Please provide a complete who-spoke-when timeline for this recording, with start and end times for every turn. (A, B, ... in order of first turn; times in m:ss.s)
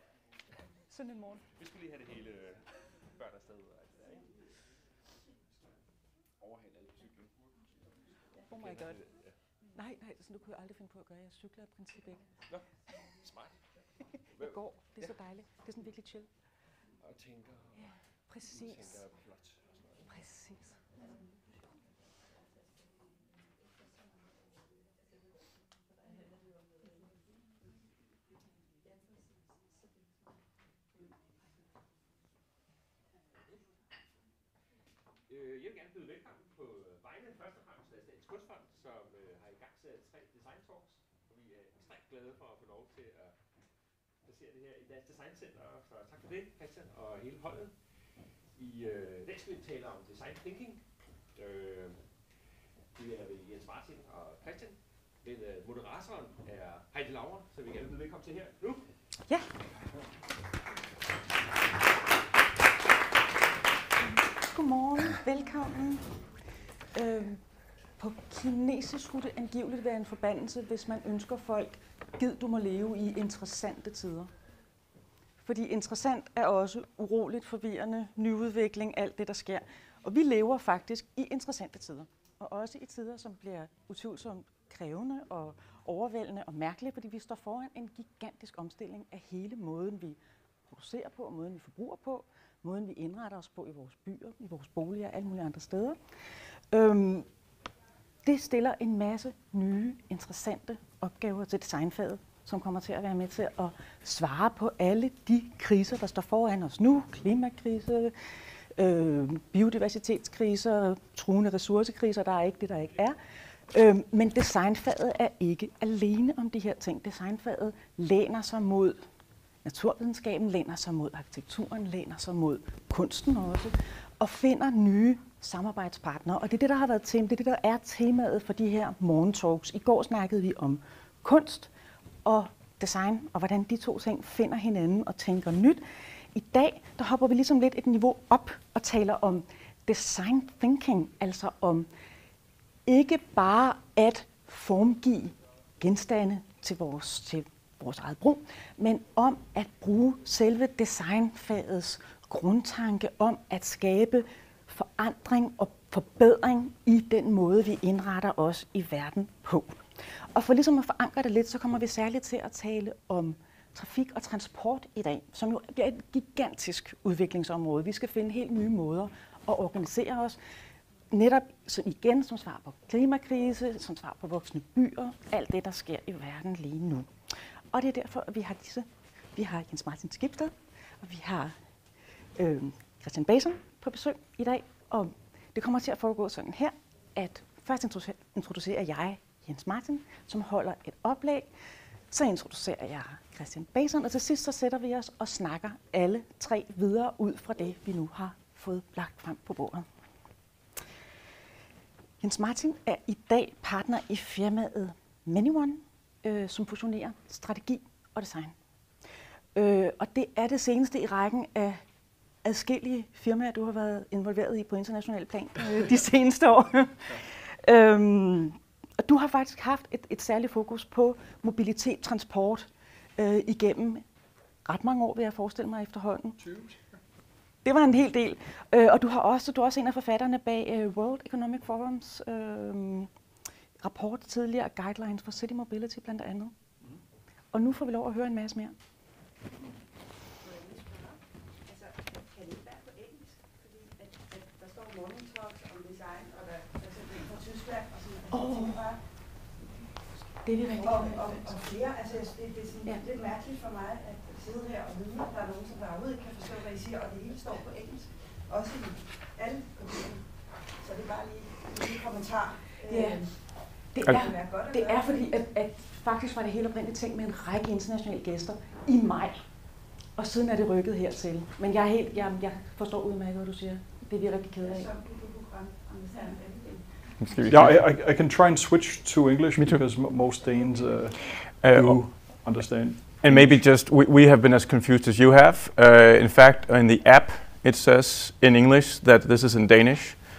0:01.0-0:01.4 A
0:01.7-0:02.6 B
0:03.2-0:04.2 B
0:08.5-0:09.0 A
0:08.6-0:08.9 B
0:09.7-0:12.2 A
0:13.2-0:13.5 B
0:14.4-0:16.3 A
0:17.0-0:17.7 B
0:18.3-0:19.0 A
0:18.5-0:20.0 B
0:20.1-0:20.7 A
0:35.3-0:43.4 B
0:44.2-0:47.9 B
0:48.5-0:52.1 B
0:52.9-0:58.9 B
1:04.5-1:06.1 A
1:06.9-1:07.4 A
1:08.0-1:14.3 A
1:15.4-1:30.2 A
1:30.7-1:36.0 A
1:36.7-1:37.3 A
1:38.2-1:53.2 A
1:53.7-1:59.0 A
1:59.6-2:11.7 A
2:12.2-2:21.9 A
2:22.8-2:50.4 A
2:51.1-3:01.6 A
3:02.3-3:11.5 A
3:12.1-3:19.9 A
3:22.2-3:28.5 A
3:29.5-3:31.8 A
3:32.4-3:44.0 A
3:44.6-3:46.4 A
3:47.6-3:53.1 A
3:53.8-3:56.5 A
3:57.5-3:58.7 A
4:00.4-4:09.0 C
4:08.3-4:09.0 A
4:10.4-4:11.7 A
4:10.8-4:23.3 C
4:22.8-4:29.5 A
4:24.2-4:24.8 C
4:30.1-4:34.9 A
4:34.6-4:36.8 C
4:37.2-4:37.8 D
4:37.5-4:43.0 E
4:41.6-4:42.0 D
4:43.2-4:50.2 D